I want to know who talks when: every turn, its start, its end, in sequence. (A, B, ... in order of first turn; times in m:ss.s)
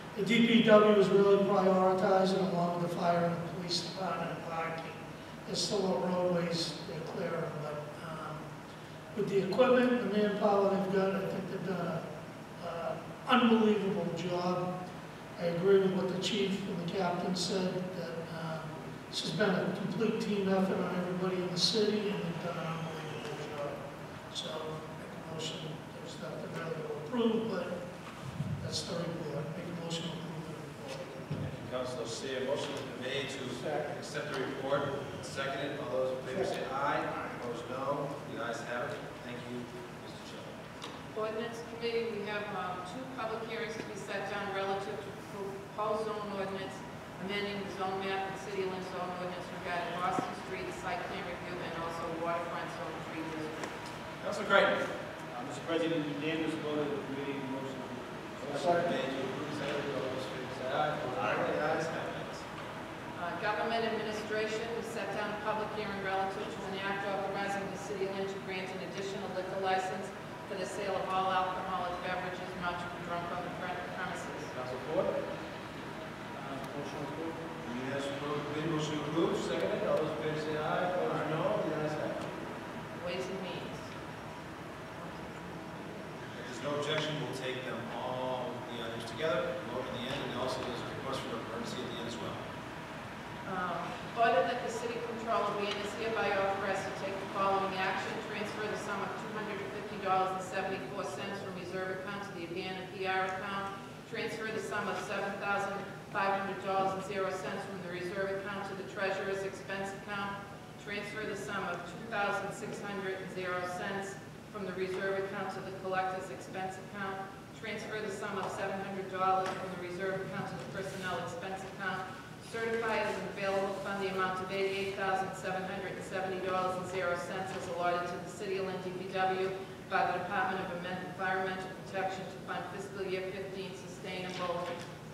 0:00.1-0:08.4 A
0:09.1-0:12.0 A
0:12.6-0:14.6 A
0:15.4-0:23.8 A
0:24.3-0:27.7 A
0:28.6-0:31.0 A
0:31.4-0:40.5 B
0:41.1-0:53.7 C
0:54.2-0:54.7 B
0:55.3-0:58.9 D
0:58.4-1:02.4 B
1:03.1-1:14.5 C
1:14.5-1:15.1 B
1:16.4-1:17.4 D
1:17.6-1:22.4 B
1:22.9-1:23.9 C
1:24.9-1:25.7 C
1:26.3-1:32.4 B
1:33.4-2:14.7 C